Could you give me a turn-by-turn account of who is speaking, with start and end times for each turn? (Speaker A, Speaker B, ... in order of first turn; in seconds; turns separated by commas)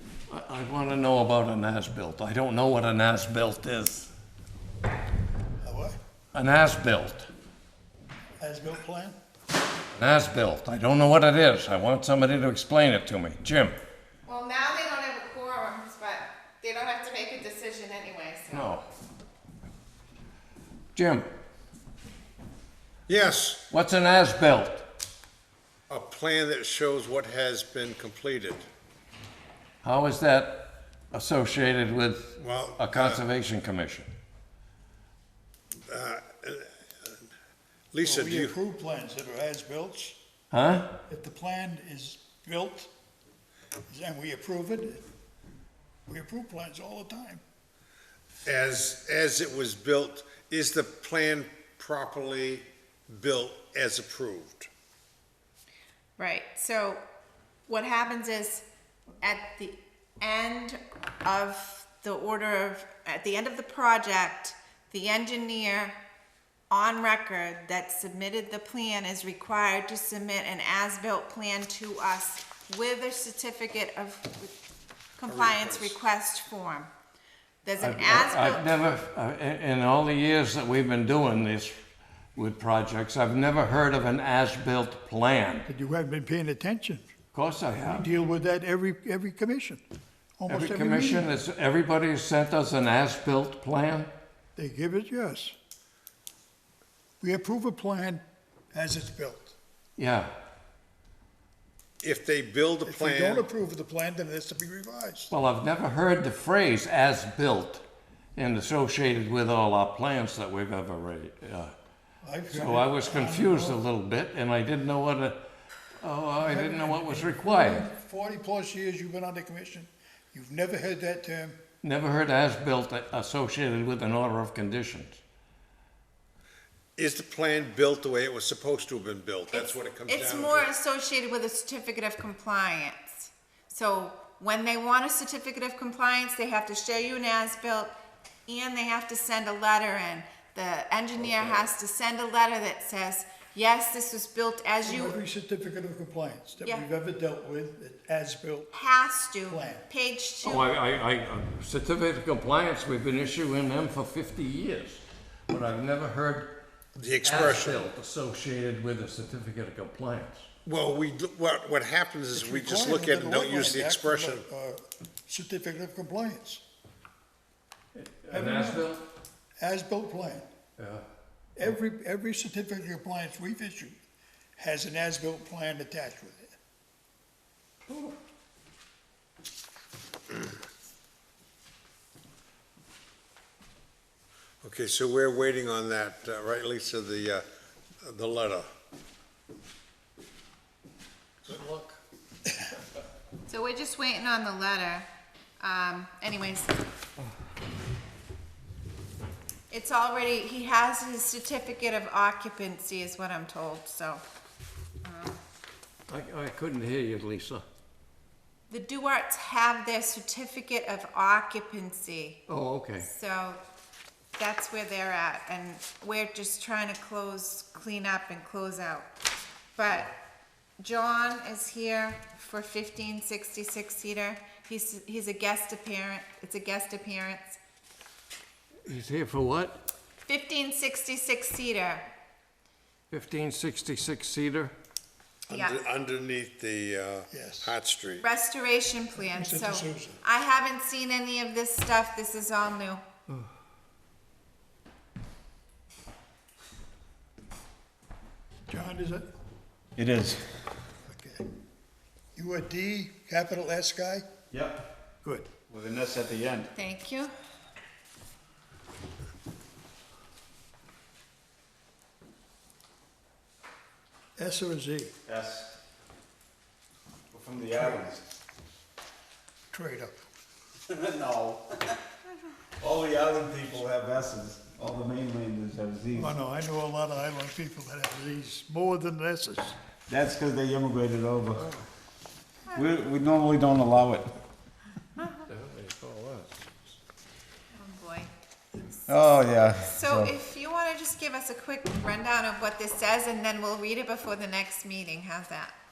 Speaker A: 0.3-4.1, Speaker B: 5.6-6.0, Speaker A: 6.3-7.3, Speaker B: 8.4-9.2, Speaker A: 9.9-13.8, Speaker C: 14.2-18.8, Speaker A: 18.5-18.9, Speaker A: 20.9-21.3, Speaker D: 23.1-23.6, Speaker A: 23.7-24.9, Speaker D: 25.9-28.7, Speaker A: 29.8-34.1, Speaker D: 32.4-33.2, Speaker D: 35.9-37.2, Speaker D: 37.9-38.6, Speaker B: 38.0-40.2, Speaker A: 40.5-40.9, Speaker B: 41.1-42.9, Speaker B: 43.9-45.0, Speaker B: 46.1-47.4, Speaker D: 48.5-54.7, Speaker C: 56.2-57.0, Speaker C: 57.7-58.6, Speaker C: 59.2-66.0, Speaker C: 66.7-74.6, Speaker C: 75.2-76.9, Speaker D: 75.2-76.0, Speaker C: 77.6-78.7, Speaker A: 77.8-81.8, Speaker A: 82.4-85.7, Speaker B: 85.7-87.1, Speaker A: 87.3-88.1, Speaker B: 87.9-89.8, Speaker B: 90.4-91.3, Speaker A: 90.5-94.1, Speaker B: 94.6-95.5, Speaker B: 97.2-98.2, Speaker B: 98.7-99.6, Speaker A: 100.0-100.3, Speaker D: 102.0-103.5, Speaker B: 102.8-105.3, Speaker A: 105.3-107.8, Speaker A: 108.4-111.7, Speaker B: 112.2-113.8, Speaker A: 112.5-115.4, Speaker A: 116.0-117.9, Speaker B: 116.4-121.6, Speaker A: 121.8-125.2, Speaker D: 127.0-130.7, Speaker C: 129.5-137.9, Speaker C: 138.5-145.2, Speaker B: 144.8-148.7, Speaker C: 148.7-150.7, Speaker B: 149.5-149.9, Speaker A: 150.4-156.5, Speaker D: 157.0-157.8, Speaker A: 157.2-160.5, Speaker D: 160.7-164.5, Speaker B: 162.3-166.6, Speaker A: 167.9-169.0, Speaker B: 168.3-168.9, Speaker B: 169.6-170.5, Speaker A: 170.8-171.1, Speaker B: 171.6-174.0, Speaker B: 174.6-176.6, Speaker A: 177.9-178.2, Speaker D: 184.6-187.4, Speaker D: 188.0-188.7, Speaker A: 191.4-192.0, Speaker C: 193.5-195.1, Speaker C: 195.6-196.9, Speaker C: 199.7-204.2, Speaker C: 205.0-205.4, Speaker A: 206.1-207.7, Speaker C: 208.7-212.4, Speaker A: 212.5-213.1, Speaker C: 213.0-213.6, Speaker C: 214.4-219.1, Speaker C: 219.8-220.1, Speaker C: 220.8-227.6, Speaker A: 228.8-229.8, Speaker C: 230.3-232.1, Speaker A: 233.1-234.7, Speaker D: 235.5-238.2, Speaker C: 235.5-235.8, Speaker B: 237.3-237.7, Speaker C: 238.2-243.1, Speaker B: 239.2-240.2, Speaker B: 248.7-249.2, Speaker E: 250.0-250.4, Speaker B: 251.1-251.4, Speaker B: 252.3-254.2, Speaker E: 254.5-254.9, Speaker B: 255.2-255.5, Speaker E: 255.7-256.7, Speaker C: 256.8-257.3, Speaker B: 264.4-265.1, Speaker E: 265.3-265.8, Speaker E: 267.3-268.2, Speaker B: 269.7-270.1, Speaker E: 270.9-271.9, Speaker E: 272.8-276.4, Speaker B: 276.2-279.8, Speaker E: 280.1-281.7, Speaker E: 282.7-284.3, Speaker A: 285.5-286.6, Speaker C: 287.8-295.7, Speaker E: 289.1-290.3